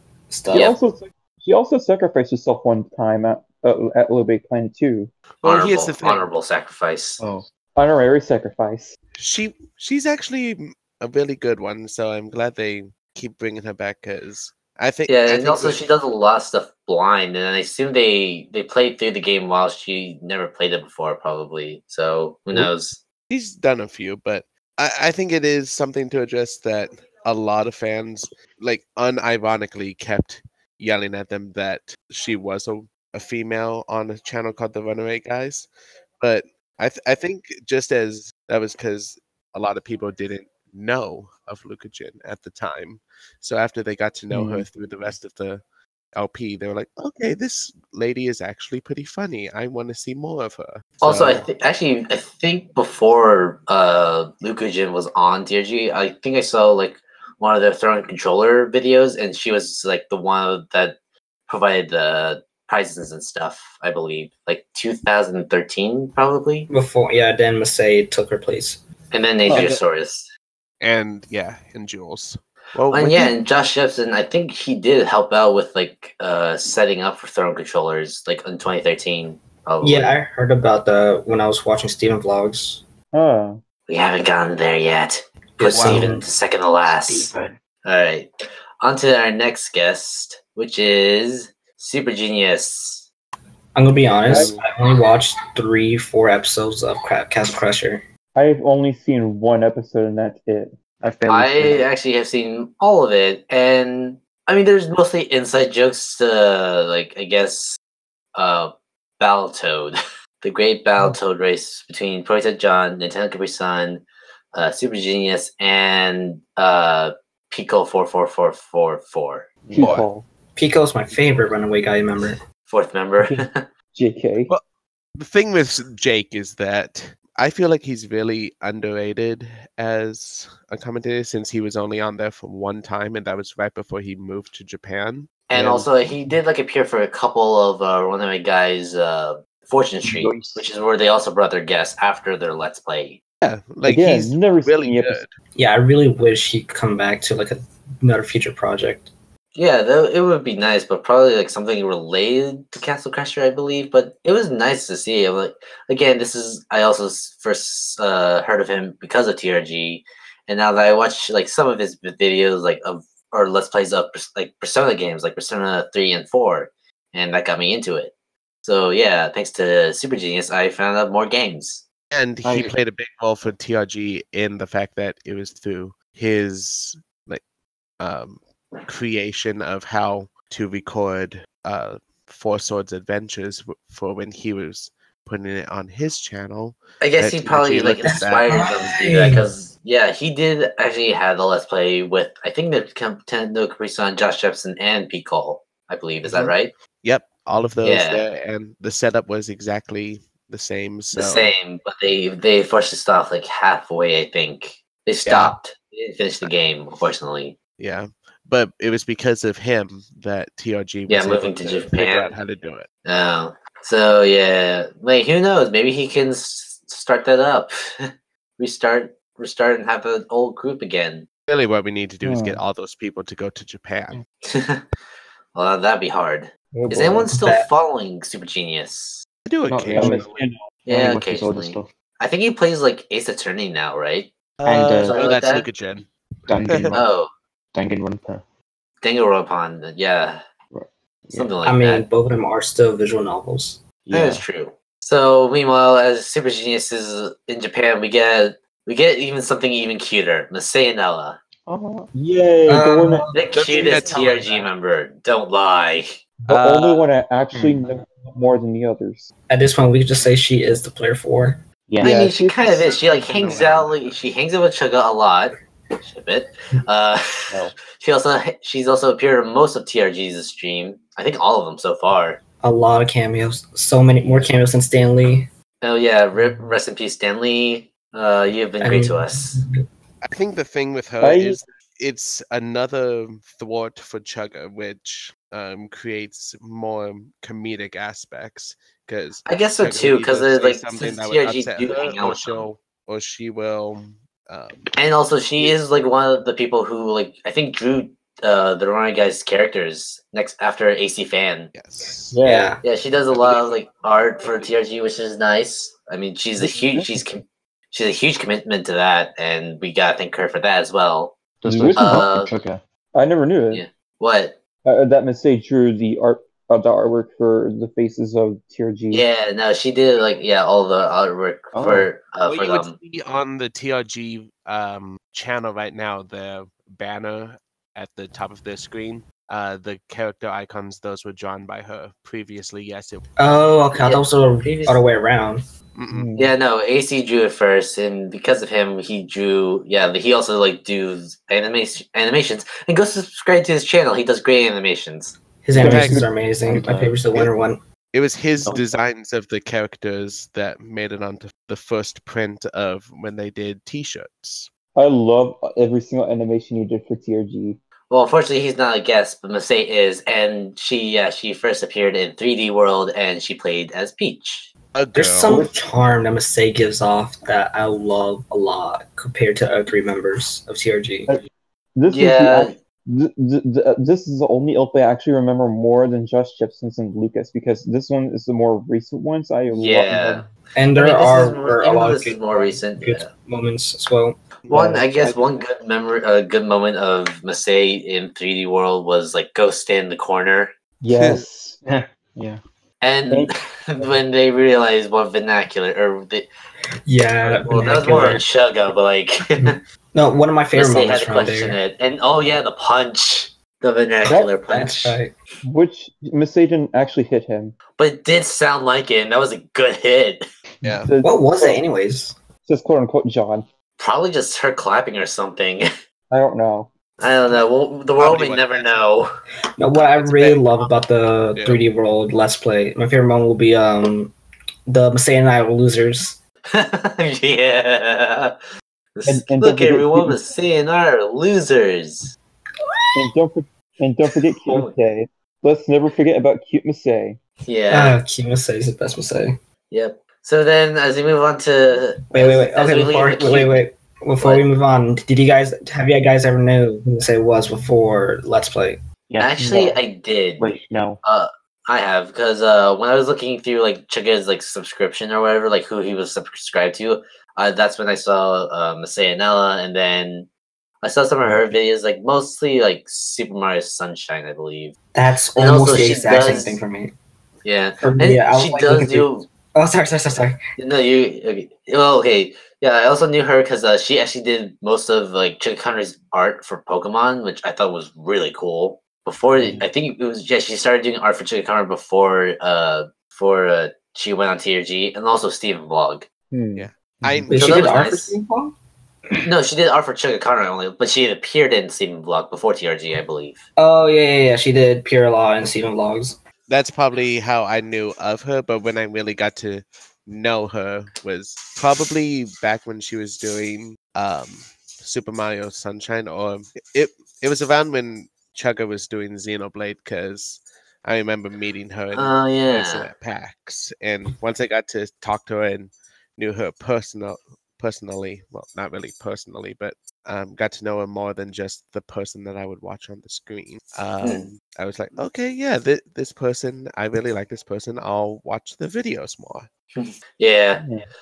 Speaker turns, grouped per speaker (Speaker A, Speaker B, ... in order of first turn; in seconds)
Speaker A: 0.3-0.7, 66.7-68.8, 79.8-82.8, 85.6-86.3, 86.9-87.5, 93.7-98.0, 120.5-122.4, 145.5-149.1, 188.0-189.4, 227.3-227.7, 241.6-243.8, 252.7-253.3, 259.5-261.6, 272.6-275.5, 278.8-279.7, 302.4-302.8, 333.4-335.6, 345.6-347.8, 365.1-371.4, 380.7-384.4, 397.1-398.4, 400.1-401.8, 404.7-405.3, 411.2-412.4, 419.8-424.3, 424.9-426.4, 437.9-439.6, 442.3-449.0, 465.1-467.1, 468.0-470.6, 487.5-488.7, 493.8-496.4
Speaker B: 0.5-5.1, 7.7-8.9, 44.3-44.7, 69.5-69.8, 83.1-83.6, 94.3-94.6, 98.3-100.8, 119.7-120.2, 123.2-124.5, 143.8-145.2, 222.2-222.6, 226.7-227.3, 229.9-230.6, 252.1-253.3, 256.4-259.3, 262.0-262.9, 281.2-281.6, 302.3-302.7, 306.6-307.3, 311.6-312.2, 313.1-313.8, 314.8-319.2, 336.1-336.5, 345.7-346.9, 354.9-357.8, 365.5-365.7, 371.9-380.4, 384.7-385.3, 391.0-391.8, 393.3-394.1, 405.6-407.8, 410.8-411.8, 412.6-413.6, 416.3-416.9, 429.3-430.4, 433.1-437.4, 479.6-479.8, 486.5-487.5, 530.8-531.1
Speaker C: 5.4-6.2, 9.2-15.8, 23.3-35.7, 36.2-45.6, 46.1-51.5, 70.8-73.3, 85.6-86.2, 119.8-120.0, 125.2-135.9, 143.4-145.3, 172.1-177.4, 178.0-188.7, 196.2-201.5, 205.2-205.6, 207.8-212.9, 221.5-224.2, 229.4-230.5, 234.6-236.1, 236.7-236.9, 253.5-254.7, 256.5-257.1, 263.0-264.1, 280.2-294.9, 301.7-302.4, 303.3-303.8, 322.4-333.2, 335.9-336.3, 345.8-346.2, 348.1-354.7, 364.9-365.6, 410.8-411.1, 418.2-419.0, 420.0-420.9, 421.5-421.8, 486.8-488.0, 496.7-529.7
Speaker D: 5.4-7.2, 15.1-23.0, 51.0-61.0, 61.5-66.7, 69.1-70.3, 72.9-80.1, 83.9-88.3, 88.8-93.1, 101.3-107.8, 108.3-114.0, 114.5-119.5, 122.7-123.7, 135.5-143.2, 149.5-168.1, 168.6-171.8, 187.0-196.7, 197.8-198.2, 201.1-207.6, 211.1-212.4, 213.0-221.3, 224.4-224.8, 225.5-229.2, 230.8-234.3, 235.0-235.7, 236.9-237.3, 239.0-240.4, 241.3-242.1, 244.1-251.4, 253.3-256.2, 262.0-272.4, 275.8-279.6, 289.4-292.7, 294.9-301.7, 302.8-311.4, 311.9-312.5, 313.7-314.6, 319.1-322.9, 333.9-335.0, 336.4-345.4, 358.1-364.7, 372.1-372.8, 379.7-383.3, 384.7-390.7, 393.0-396.5, 397.4-399.8, 400.7-405.2, 408.0-410.4, 414.0-415.9, 417.2-419.3, 426.7-428.6, 429.1-432.4, 434.6-434.9, 437.6-438.2, 439.9-443.8, 444.4-444.6, 449.4-460.5, 461.0-464.9, 465.6-466.8, 467.6-469.4, 470.8-486.2, 487.5-488.4, 489.4-493.6, 512.1-513.1, 524.2-524.5, 530.0-530.8
Speaker E: 7.2-7.4, 94.3-94.6, 101.0-101.9, 119.6-120.1, 140.1-140.7, 172.4-172.7, 229.7-230.2, 230.9-231.9, 234.6-235.2, 236.5-237.1, 237.7-238.4, 240.7-241.6, 244.0-244.4, 251.7-252.1, 257.5-257.8, 261.9-262.3, 311.6-312.8, 321.7-322.1, 346.7-347.1, 391.1-392.6, 449.3-450.0, 450.6-451.2